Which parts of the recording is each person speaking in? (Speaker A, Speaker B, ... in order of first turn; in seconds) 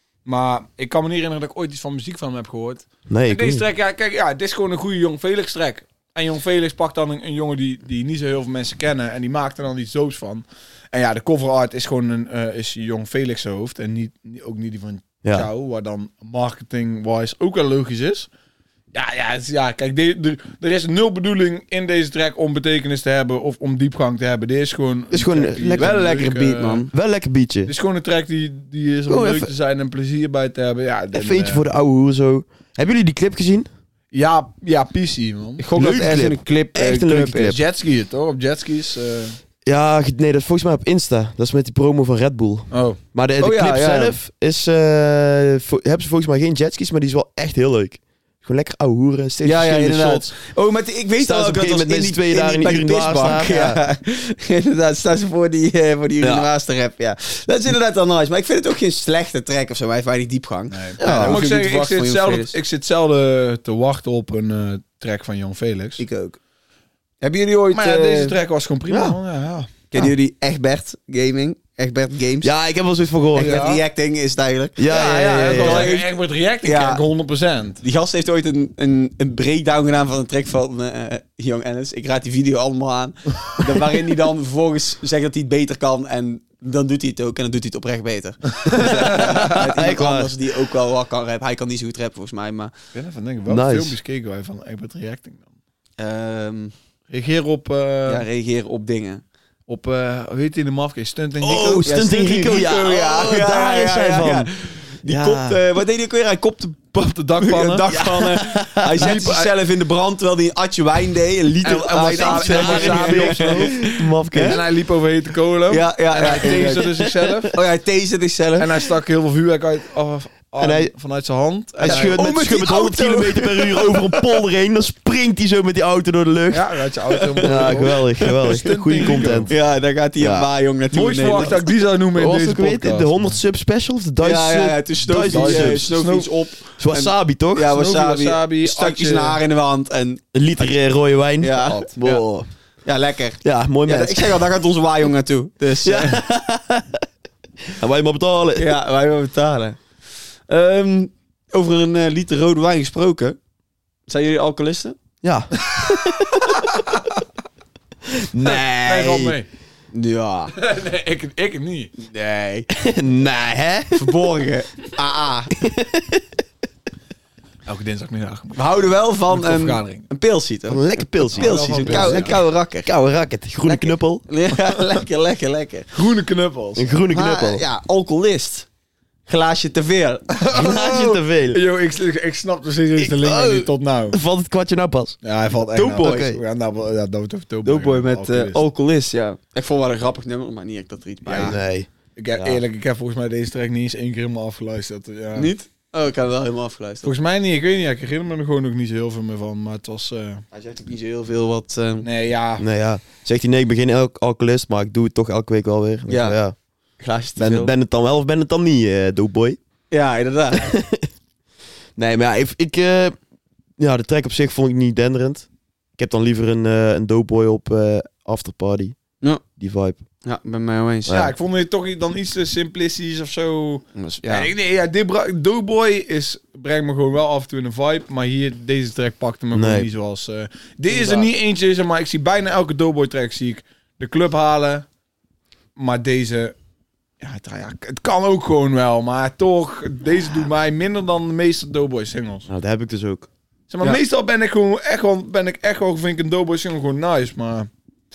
Speaker A: 0.2-18.3, 18.9-26.9, 27.7-31.6, 34.1-35.6, 37.5-39.4, 42.7-43.0, 60.7-66.0, 67.7-70.0, 73.3-73.8, 74.9-77.8, 88.8-89.3, 92.9-95.4, 97.1-98.2, 99.7-101.9, 106.9-108.0, 108.8-109.5, 111.6-113.9, 114.4-117.5, 118.6-122.2, 126.5-129.5, 130.9-133.4, 135.2-136.3, 137.7-139.4, 158.4-159.5, 160.5-161.9, 167.7-170.1, 171.3-172.4, 175.9-176.9, 180.3-184.2, 185.2-188.6, 191.2-191.6, 192.2-195.5, 197.0-200.4, 202.0-202.7, 221.1-234.8, 235.8-236.5, 237.2-242.5, 243.7-247.7
Speaker B: 3.1-3.6, 25.1-25.9, 26.9-27.7, 29.1-29.5, 31.1-33.7, 35.8-37.6, 39.6-50.3, 51.2-53.8, 56.2-56.5, 61.0-61.4, 68.9-69.2, 72.4-73.7, 74.8-75.9, 88.8-90.3, 93.5-94.0, 101.4-104.5, 105.0-105.6, 107.9-109.1, 112.0-114.6, 120.6-120.9, 121.8-126.7, 127.4-129.5, 130.2-130.5, 131.3-131.6, 132.1-135.9, 136.8-137.7, 140.3-142.5, 143.4-144.4, 145.8-147.0, 147.7-148.8, 155.2-156.5, 158.1-159.3, 162.7-164.1, 165.6-166.3, 170.7-174.2, 176.8-177.6, 180.5-181.6, 183.0-185.2, 186.0-186.4, 191.4-192.6, 202.6-206.5, 207.4-209.6, 210.6-211.1, 211.9-213.2, 213.8-219.0, 219.6-220.0, 221.1-221.3, 229.5-229.9, 242.5-243.3
Speaker C: 25.8-26.9, 35.6-37.6, 43.4-44.2, 49.4-62.5, 66.0-66.4, 67.2-68.3, 69.9-72.5, 73.3-74.9, 75.4-76.1, 76.6-77.0, 77.8-92.7, 96.0-96.7, 98.0-99.2, 101.8-114.6, 115.7-118.7, 121.8-124.4, 127.1-128.6, 129.5-131.6, 134.2-140.7, 141.4-142.2, 142.8-146.2, 148.6-149.8, 150.5-153.4, 154.1-154.9, 159.9-160.5, 162.0-162.7, 163.9-165.5, 168.5-172.9, 173.7-175.9, 177.1-178.7, 179.3-180.8, 185.7-186.3, 187.6-191.6, 195.3-197.1, 200.5-202.1, 206.1-206.4, 207.0-207.7, 209.9-210.7, 220.2-221.2, 223.9-224.5, 230.9-231.3